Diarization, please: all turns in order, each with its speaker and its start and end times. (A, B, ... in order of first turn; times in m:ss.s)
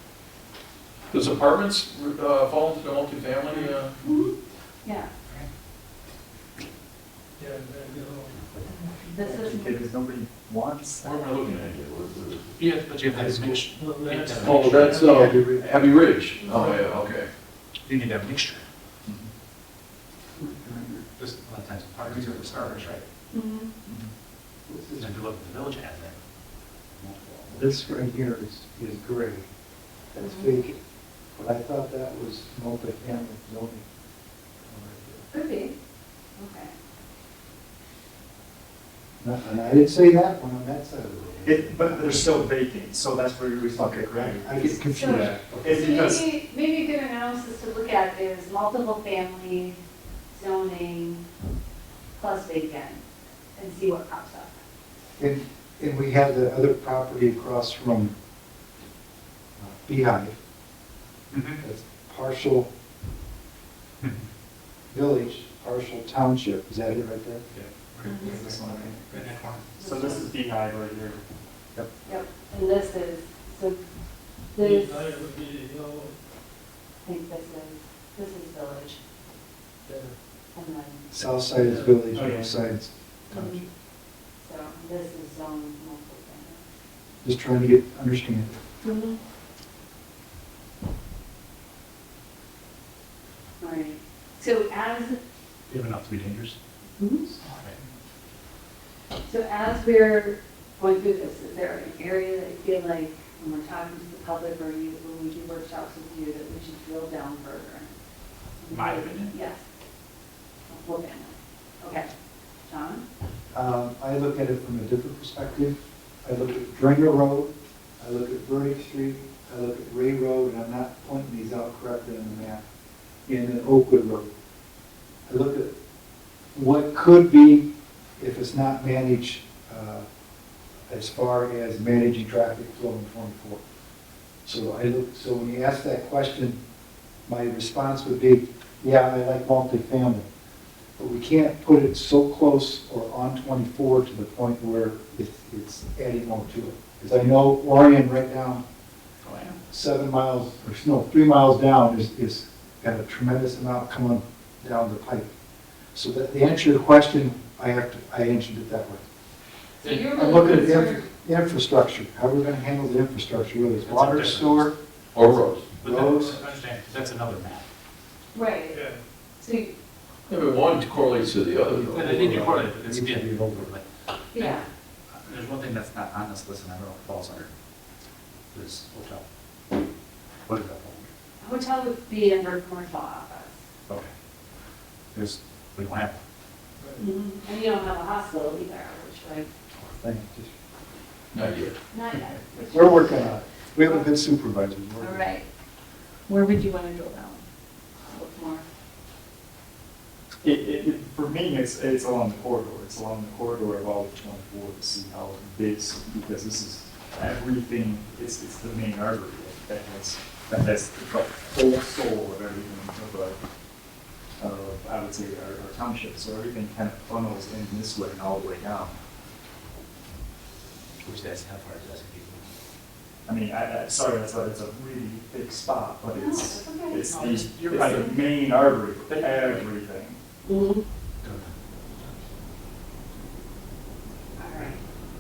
0:01.1-0:03.9 A
0:03.5-0:05.1 B
0:07.4-0:08.4 C
0:08.8-0:09.8 B
0:09.2-0:11.5 D
0:11.0-0:12.5 A
0:12.6-0:15.4 E
0:13.1-0:13.6 F
0:13.8-0:15.1 C
0:14.3-0:17.3 A
0:15.0-0:15.8 F
0:16.4-0:16.7 B
0:17.9-0:18.6 E
0:19.1-0:19.3 D
0:20.4-0:21.0 B
0:20.6-0:20.9 F
0:21.2-0:23.0 E
0:22.1-0:23.0 F
0:23.3-0:23.7 B
0:24.7-0:25.2 F
0:25.0-0:26.2 E
0:27.0-0:28.0 E
0:27.5-0:29.5 F
0:30.1-0:30.8 F
0:30.2-0:30.6 B
0:31.4-0:33.8 F
0:34.7-0:35.3 F
0:35.3-0:35.8 B
0:36.4-0:36.7 B
0:39.2-0:42.3 F
0:41.4-0:46.2 D
0:43.8-0:46.0 F
0:44.9-0:49.8 B
0:50.3-0:51.2 B
0:52.2-0:53.0 B
0:53.6-0:54.5 B
0:55.2-0:58.1 F
0:59.6-1:00.4 F
1:01.3-1:01.6 E
1:01.6-1:02.7 F
1:04.9-1:07.4 F
1:07.6-1:09.8 E
1:07.7-1:09.1 D
1:08.0-1:08.4 B
1:09.8-1:10.3 B
1:09.8-1:11.2 D
1:12.0-1:13.8 B
1:14.5-1:15.1 B
1:14.6-1:16.2 C
1:17.0-1:19.0 B
1:19.8-1:20.2 C
1:20.5-1:21.1 B
1:21.1-1:23.7 F
1:21.6-1:22.0 C
1:22.1-1:22.6 D
1:23.3-1:23.6 B
1:24.4-1:26.6 B
1:27.2-1:28.6 F
1:28.8-1:29.2 B
1:33.6-1:35.2 B
1:35.7-1:36.6 E
1:37.0-1:37.3 B
1:37.5-1:37.8 E
1:39.3-1:48.0 B
1:48.6-1:49.6 B
1:48.7-1:49.3 E
1:50.7-1:52.1 B
1:52.7-1:53.0 B
1:53.5-2:02.6 F
2:03.3-2:04.3 F
2:05.3-2:05.7 F
2:06.6-2:10.1 F
2:10.9-2:13.6 F
2:14.4-2:16.6 F
2:17.3-2:20.3 F
2:21.0-2:28.6 F
2:29.2-2:29.6 E
2:29.7-2:35.3 F
2:35.9-2:39.0 F
2:39.8-2:41.1 B
2:40.0-2:44.8 F
2:43.8-2:47.6 E
2:45.1-2:45.6 A
2:45.5-2:46.4 F
2:48.3-2:49.8 B
2:48.7-2:49.0 C
2:50.3-2:52.2 A
2:51.7-2:53.7 F
2:51.8-2:54.6 E
2:54.3-2:54.7 B
2:55.1-2:57.5 E
2:58.5-2:59.2 E
3:00.5-3:01.1 E
3:01.4-3:03.6 B
3:05.1-3:06.2 E
3:06.8-3:07.0 C
3:07.0-3:09.5 B
3:09.8-3:10.5 F
3:11.3-3:11.8 A
3:11.9-3:14.1 B
3:12.6-3:15.3 F
3:15.0-3:15.5 B
3:16.3-3:17.4 B
3:18.0-3:18.6 B
3:20.4-3:33.4 D
3:34.4-3:39.0 D
3:41.0-3:42.5 E
3:43.3-3:50.2 D
3:46.1-3:48.2 B
3:47.5-3:48.0 E
3:50.4-3:50.8 B
3:51.2-3:51.5 E
3:54.4-3:54.8 B